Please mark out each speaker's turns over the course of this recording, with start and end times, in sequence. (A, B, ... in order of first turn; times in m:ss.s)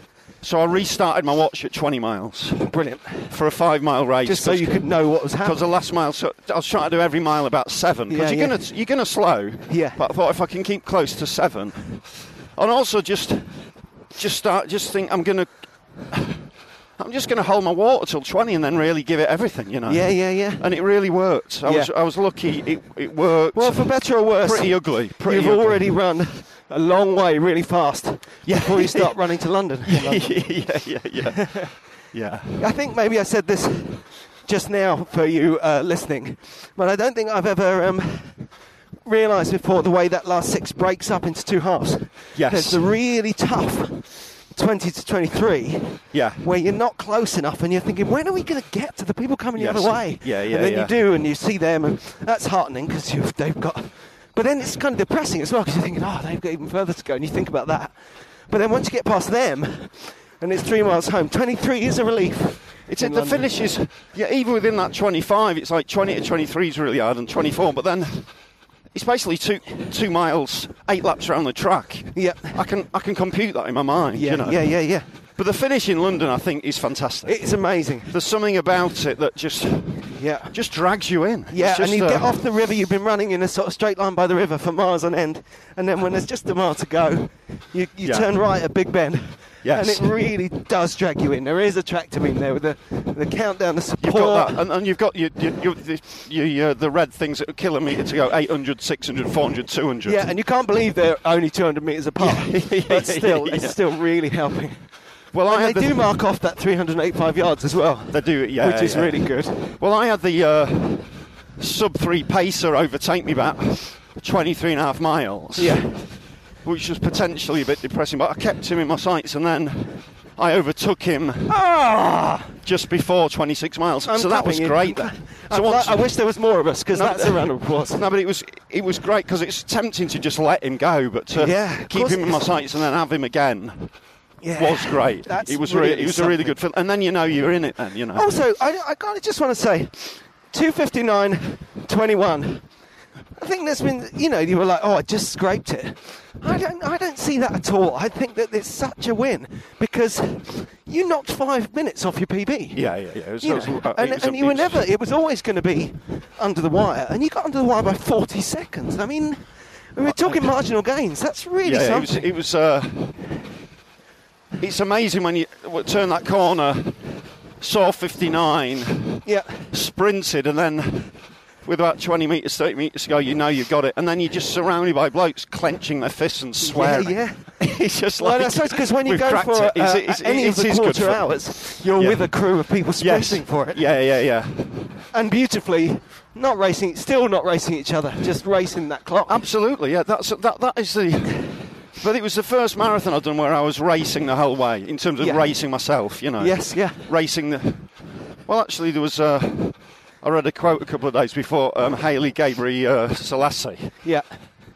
0:00.4-0:25.9 A
0:02.6-0:03.4 B
0:04.2-0:05.7 B
0:08.1-0:08.8 B
0:09.7-0:10.0 B
0:19.9-0:21.0 B
0:21.6-0:21.9 B
0:23.5-0:30.8 B
0:28.5-0:32.6 A
0:31.4-0:31.9 B
0:32.6-1:03.5 B
0:42.4-0:42.8 A
0:46.1-0:46.4 A
0:49.6-0:51.0 A
1:02.9-1:22.4 A
1:12.2-1:12.6 B
1:14.1-1:15.2 B
1:17.2-1:18.1 B
1:20.1-1:20.6 B
1:21.5-1:34.6 B
1:28.0-1:28.6 A
1:29.6-1:30.2 A
1:34.0-1:40.3 A
1:40.0-1:49.8 B
1:42.2-1:43.8 A
1:45.3-1:46.1 A
1:48.1-2:01.6 A
1:55.6-1:56.3 B
2:01.5-2:02.5 B
2:02.6-2:14.0 A
2:04.0-2:08.1 B
2:11.3-2:12.6 B
2:14.4-2:16.6 B
2:14.6-2:18.4 A
2:18.2-2:22.7 B
2:23.4-2:42.4 B
2:32.7-2:34.9 A
2:40.0-2:40.6 A
2:41.6-2:43.2 A
2:44.6-3:05.0 A
2:49.2-2:49.7 B
2:56.6-3:03.9 B
3:05.1-3:09.5 B
3:09.3-3:24.0 A
3:15.2-3:17.1 B
3:24.0-3:24.4 B